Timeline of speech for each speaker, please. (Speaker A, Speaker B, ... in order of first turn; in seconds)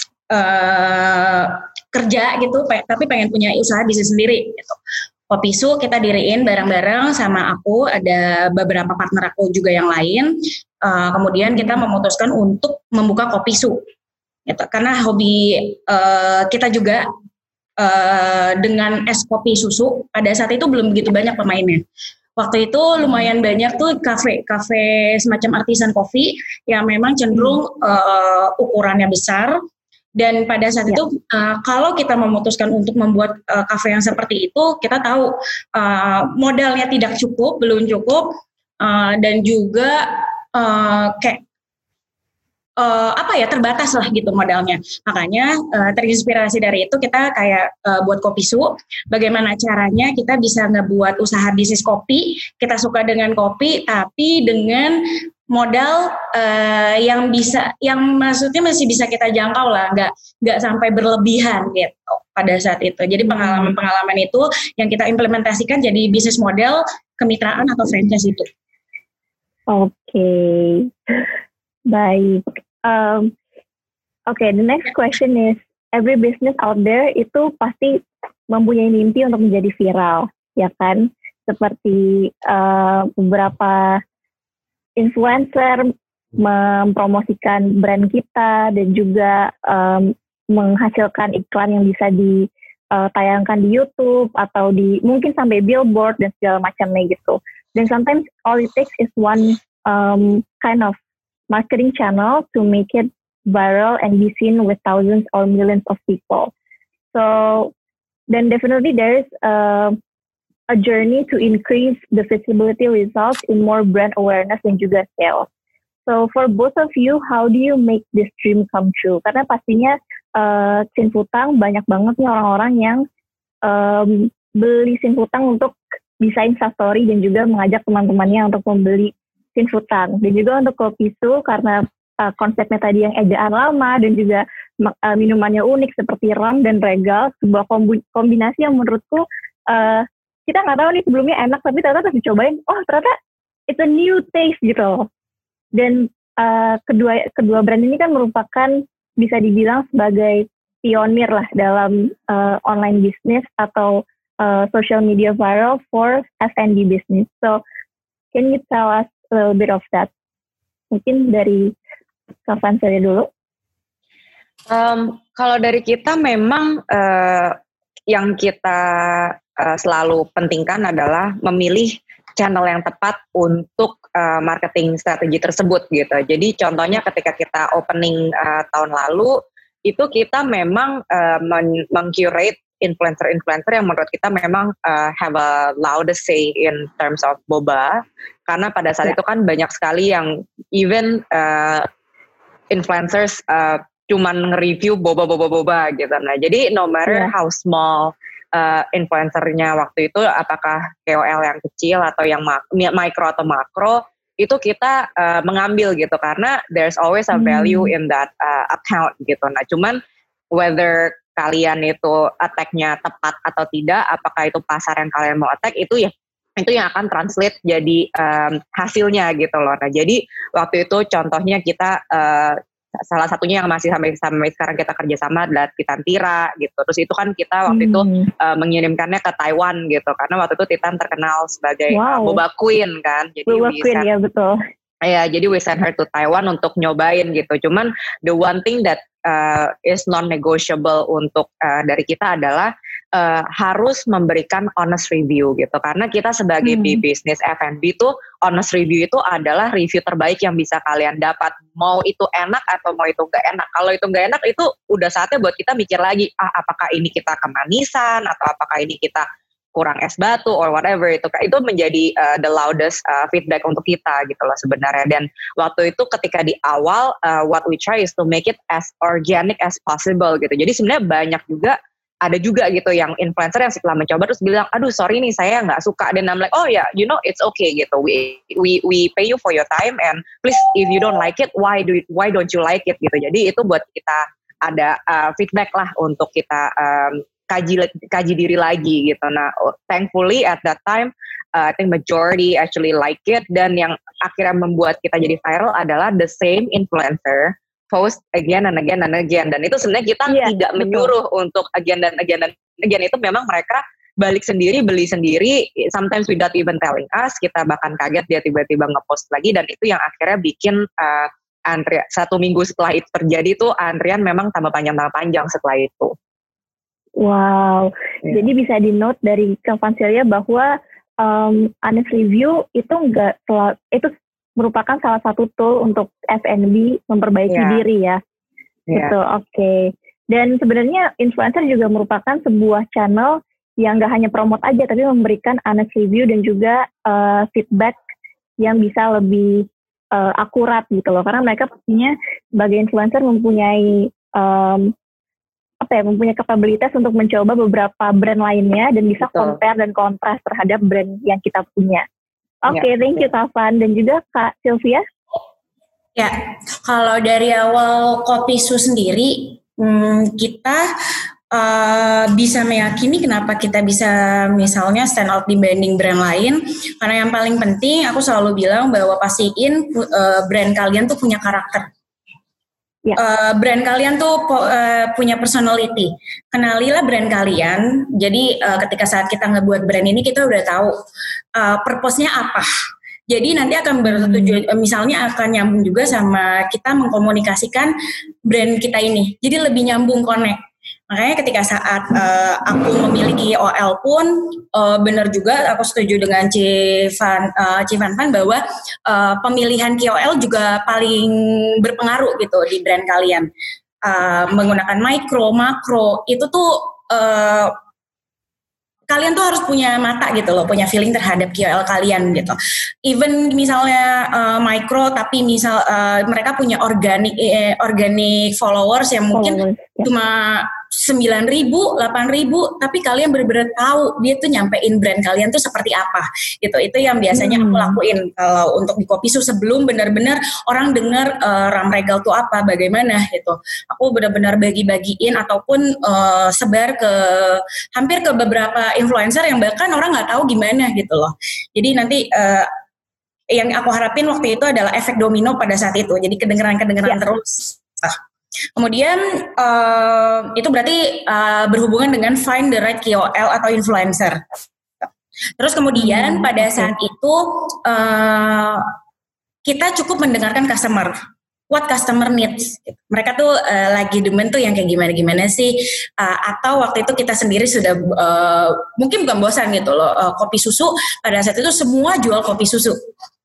Speaker A: 0.3-4.8, 5.3-10.3, 10.8-13.8, 14.5-17.0, 17.8-21.8, 22.4-29.6, 30.1-38.2, 38.8-41.4, 42.8-55.0, 55.5-68.5, 356.1-360.8, 361.5-371.9, 373.1-380.9, 381.6-382.7, 383.3-387.9, 388.5-390.6, 391.1-403.5, 404.0-407.7, 409.1-442.7, 443.5-448.2, 448.8-454.4, 455.6-458.9, 459.6-461.1, 461.7-472.9
Speaker B: 63.3-63.7, 69.7-71.2, 71.9-73.3, 74.3-84.0, 85.0-101.0, 101.5-106.5, 107.1-107.7, 108.3-110.0, 110.7-115.5, 116.0-123.0, 123.7-143.1, 143.7-145.1, 145.8-157.6, 158.3-160.1, 160.9-161.7, 162.5-163.3, 207.3-207.9, 227.7-228.3, 231.9-232.4, 233.5-234.6, 246.6-247.0, 300.3-301.1, 317.2-328.2, 328.9-338.0, 338.6-344.9, 345.8-352.1, 352.6-355.1, 384.1-384.6, 419.3-420.1, 427.3-428.0, 455.9-456.9
Speaker C: 164.7-167.6, 168.1-191.9, 192.7-210.0, 210.5-234.1, 235.0-316.1, 327.5-327.8, 328.9-329.1, 349.2-349.6